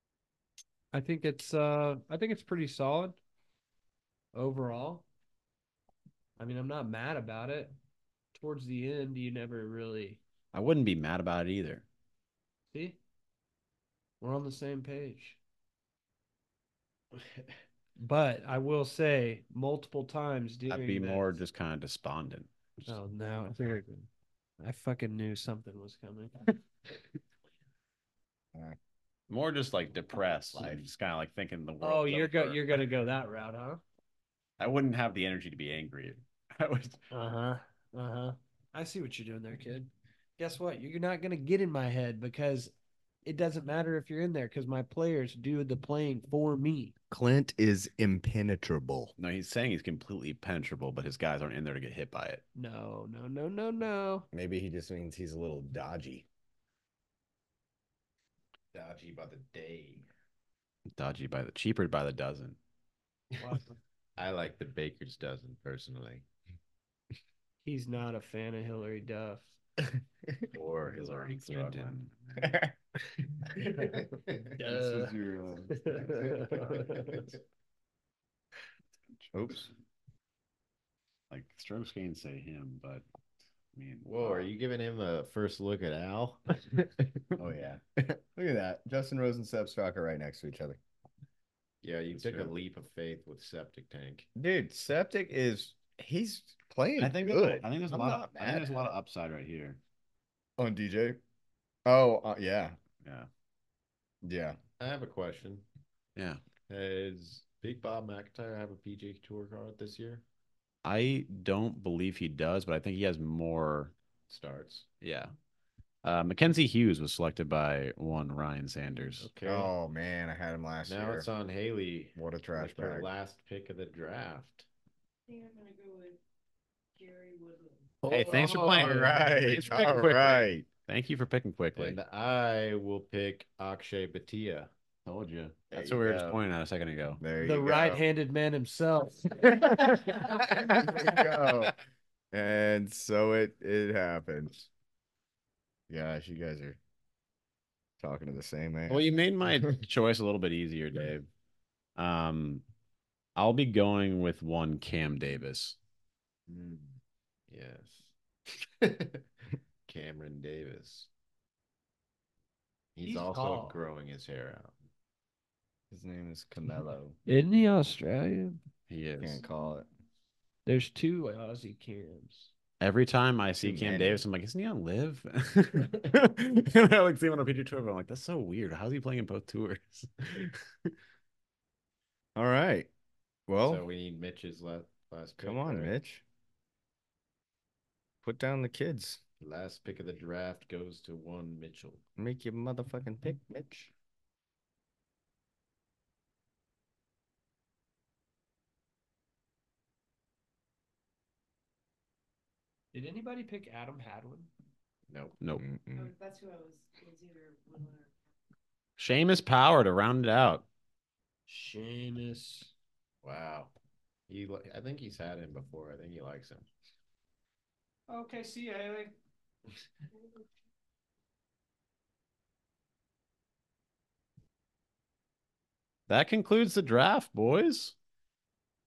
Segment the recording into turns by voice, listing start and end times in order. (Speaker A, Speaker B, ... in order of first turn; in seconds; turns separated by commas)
Speaker A: 0.9-3.2, Speaker A: 4.3-5.0, Speaker A: 6.4-7.7, Speaker A: 8.3-10.2, Speaker B: 10.5-11.8, Speaker A: 12.7-13.0, Speaker A: 14.2-15.4, Speaker A: 18.0-21.4, Speaker B: 20.7-23.0, Speaker A: 22.9-26.5, Speaker B: 29.3-32.8, Speaker C: 30.6-30.9, Speaker A: 31.8-33.8, Speaker B: 34.6-37.0, Speaker A: 37.1-42.7, Speaker A: 43.2-46.9, Speaker C: 47.1-49.1, Speaker B: 49.2-52.4, Speaker A: 52.5-54.3, Speaker C: 54.3-56.3, Speaker D: 58.7-60.1, Speaker B: 61.0-62.6, Speaker A: 63.4-63.8, Speaker D: 64.2-66.3, Speaker A: 67.7-69.5, Speaker D: 70.5-72.1, Speaker B: 71.0-72.1, Speaker C: 72.4-72.7, Speaker D: 73.8-74.2, Speaker A: 74.6-75.2, Speaker C: 74.6-77.2, Speaker A: 75.7-77.2, Speaker D: 76.5-77.2, Speaker C: 79.3-79.7, Speaker B: 81.3-83.0, Speaker B: 83.7-84.5, Speaker D: 84.0-86.9, Speaker C: 87.4-90.8, Speaker D: 91.8-94.3, Speaker B: 92.1-92.5, Speaker C: 94.4-98.8, Speaker B: 97.0-99.8, Speaker C: 100.6-101.2, Speaker C: 101.8-102.8, Speaker B: 103.0-103.3, Speaker C: 104.2-104.6, Speaker D: 104.8-105.7, Speaker B: 106.2-106.4, Speaker D: 106.7-110.2, Speaker B: 110.8-113.9, Speaker D: 114.3-114.9, Speaker B: 115.0-115.3, Speaker B: 116.0-119.3, Speaker D: 119.2-119.7, Speaker C: 119.4-121.3, Speaker D: 120.9-124.7, Speaker C: 122.2-123.1, Speaker E: 125.3-126.2, Speaker E: 127.0-128.0, Speaker D: 128.0-130.4, Speaker B: 128.1-129.8, Speaker C: 128.1-130.7, Speaker B: 130.9-132.0, Speaker D: 131.8-134.7, Speaker B: 135.1-137.2, Speaker C: 135.7-136.4, Speaker C: 137.2-138.0, Speaker A: 137.4-139.5, Speaker C: 139.4-141.7, Speaker C: 142.3-144.7, Speaker C: 145.9-146.8, Speaker C: 148.0-149.1, Speaker B: 148.9-151.3, Speaker B: 152.0-152.6, Speaker B: 153.4-155.8, Speaker D: 156.5-157.0, Speaker D: 157.5-158.1, Speaker D: 158.6-159.2, Speaker D: 159.9-161.1, Speaker D: 163.0-164.7, Speaker A: 163.0-163.8, Speaker C: 165.9-167.2, Speaker A: 167.3-168.6, Speaker B: 168.9-169.4, Speaker C: 169.2-169.9, Speaker A: 170.7-172.5, Speaker B: 172.8-180.9, Speaker C: 173.6-174.2, Speaker C: 182.4-182.9, Speaker C: 183.5-183.8, Speaker D: 183.6-185.9, Speaker C: 185.4-186.2, Speaker C: 188.2-189.2, Speaker D: 189.4-192.0, Speaker C: 192.2-193.9, Speaker A: 202.9-204.5, Speaker D: 205.1-205.4, Speaker C: 205.6-206.1, Speaker E: 205.9-208.1, Speaker B: 209.0-210.7, Speaker A: 211.5-212.7, Speaker D: 213.2-213.7, Speaker D: 214.3-216.7, Speaker A: 218.1-219.1, Speaker B: 226.1-227.9